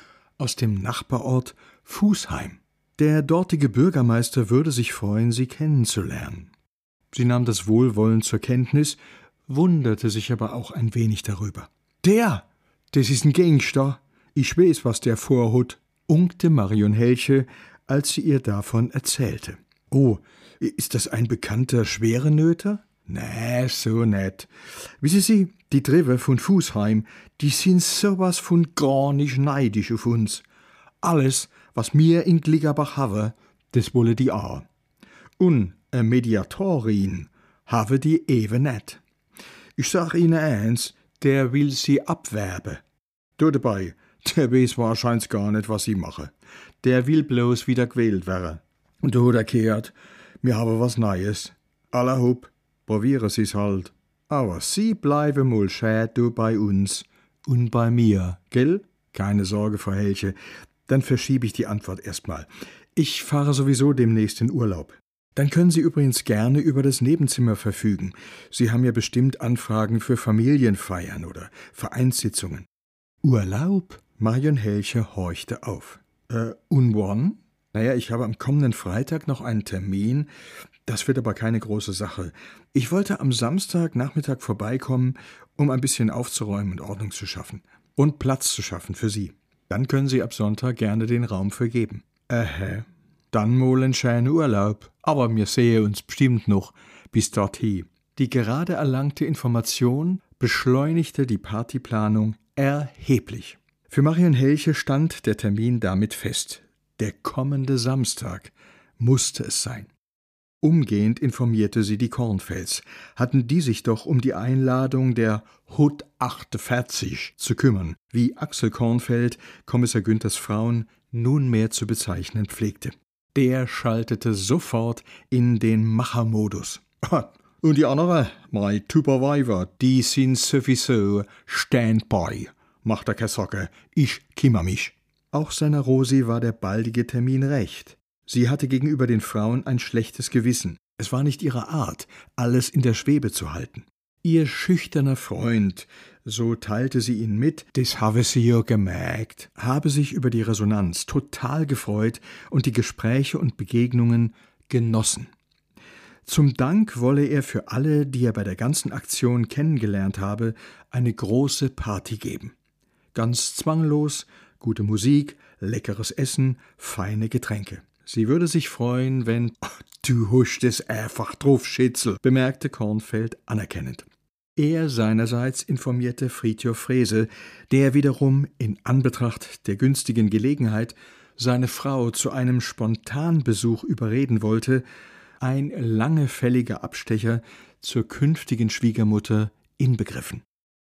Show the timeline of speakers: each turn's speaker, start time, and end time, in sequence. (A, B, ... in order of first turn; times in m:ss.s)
0:00.4-0:06.5 A
0:07.1-0:30.4 A
0:31.0-0:34.6 A
0:35.4-0:39.0 A
0:39.8-0:42.8 A
0:43.4-1:00.4 A
1:00.9-1:12.7 A
1:13.2-1:20.3 A
1:20.8-1:49.9 A
1:50.6-2:35.3 A
2:36.2-2:42.5 A
2:43.1-3:04.8 A
3:05.4-3:10.4 A